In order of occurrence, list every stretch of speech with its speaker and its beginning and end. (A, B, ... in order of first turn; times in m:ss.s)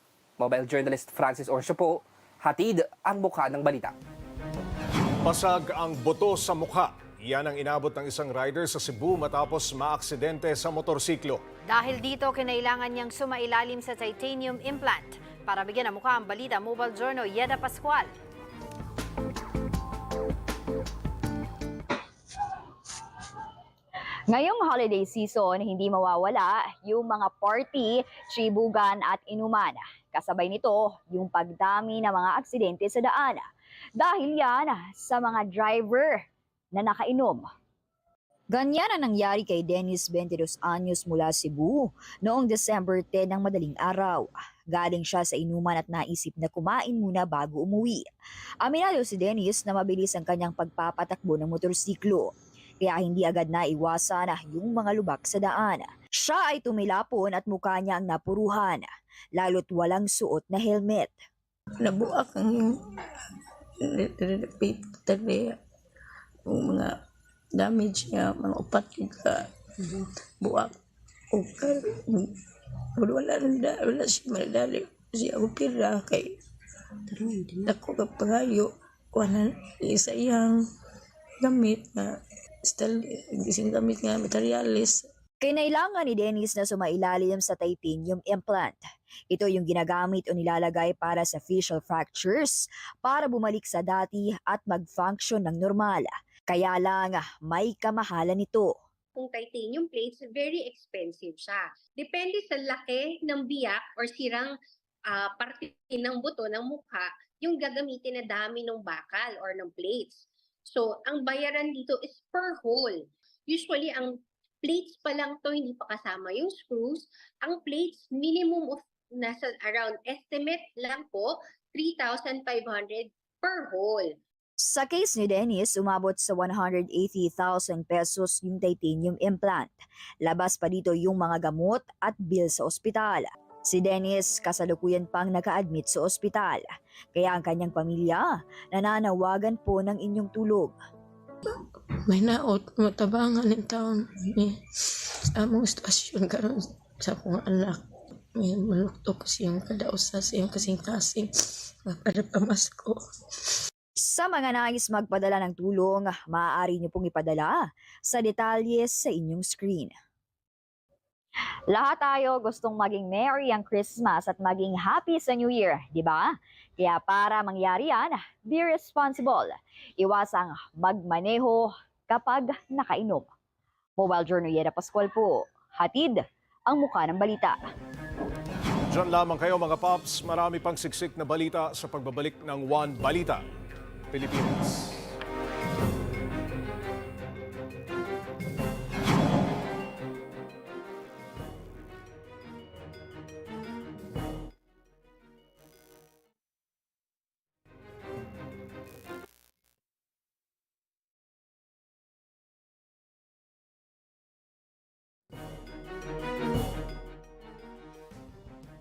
0:00.4-0:03.9 A
0:05.2-0:11.4 B
0:11.6-0:18.1 C
0:24.3-0:33.4 D
0:34.0-0:37.5 D
0:38.5-0:48.0 D
0:48.6-1:01.2 D
1:01.8-1:03.0 E
1:03.8-1:05.6 E
1:06.5-1:07.0 E
1:07.6-1:10.8 E
1:11.3-1:12.3 E
1:13.0-1:16.3 E
1:17.6-1:20.6 E
1:21.4-1:25.0 E
1:25.4-1:38.7 D
1:39.2-1:44.5 F
1:45.1-2:04.1 F
2:04.6-2:20.8 D
2:22.0-2:24.6 E
2:25.4-2:27.8 E
2:28.4-2:31.3 E
2:31.9-2:33.0 E
2:34.0-2:39.9 D
2:41.7-2:53.3 D
2:54.0-2:57.6 D
2:58.9-3:03.4 B
3:04.1-3:05.0 B